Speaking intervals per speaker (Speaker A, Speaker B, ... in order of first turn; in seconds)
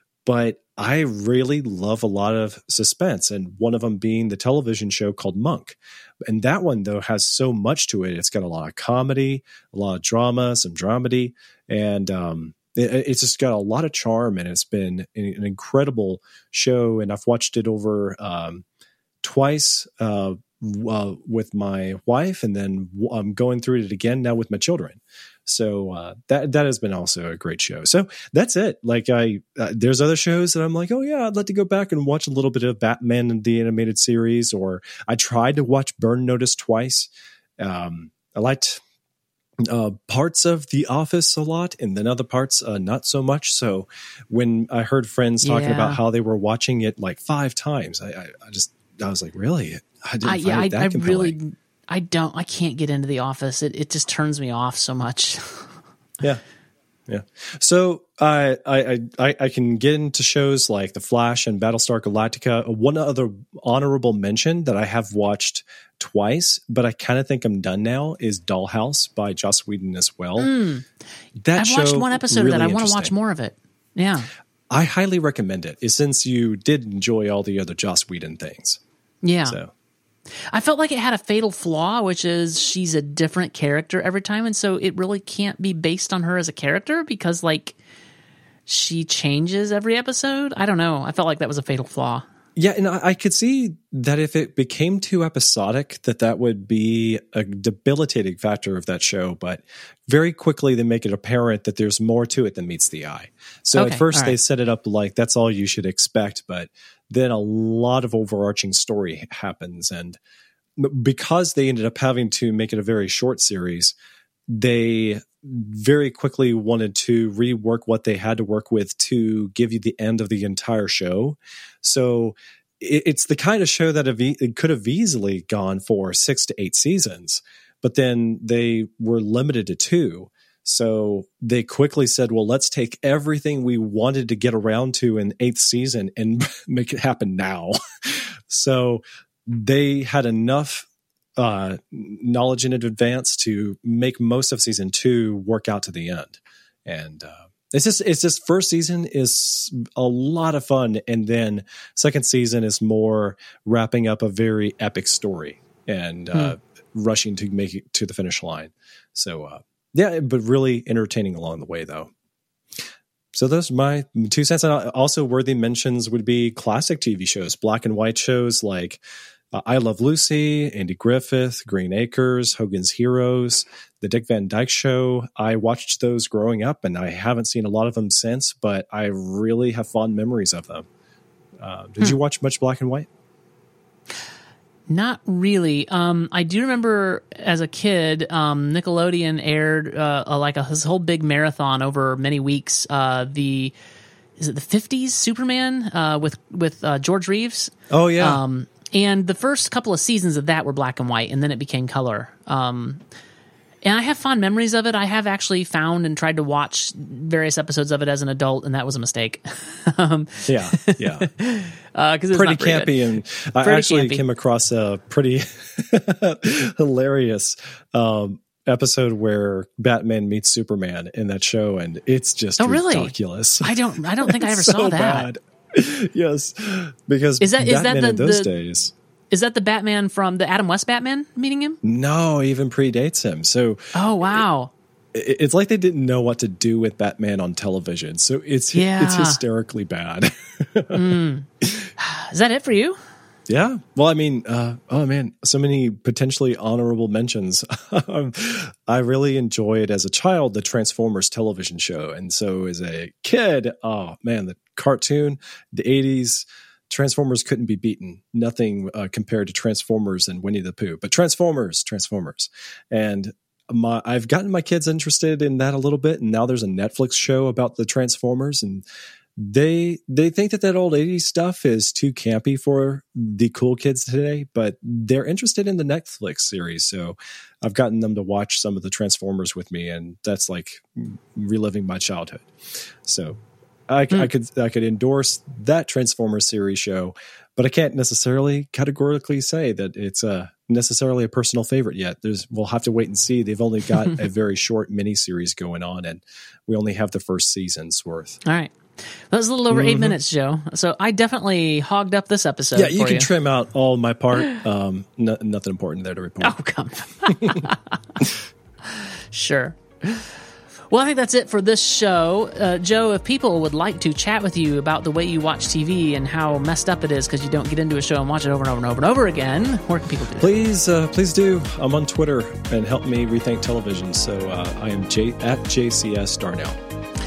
Speaker A: 0.2-18.6, 19.2-38.8, 39.6-51.3, 57.1-70.5, 71.4-73.1, 74.7-78.8, 79.4-79.7, 92.5-110.2, 110.8-113.9, 114.5-162.1, 163.3-169.0, 169.5-180.9, 181.6-183.1, 197.9-198.4, 210.4-211.3, 212.3-228.9, 231.8-234.4, 235.1-241.9, 243.5-268.8, 269.4-282.5, 283.0-298.4, 299.7-300.1, 302.7-306.6, 307.3-307.6, 320.4-326.8
Speaker B: 45.4-46.0, 50.2-55.7, 70.4-70.8, 71.6-74.3, 79.2-79.6, 80.3-87.8, 88.7-92.2, 103.7-104.3, 184.9-193.7, 194.4-203.0, 203.8-212.9, 213.6-214.2, 222.6-225.3, 227.4-228.5, 229.3-231.8, 233.9-234.7, 238.7-239.4, 240.9-243.0, 298.4-298.8, 299.3-303.3, 306.4-308.2, 308.8-310.3, 310.9-320.5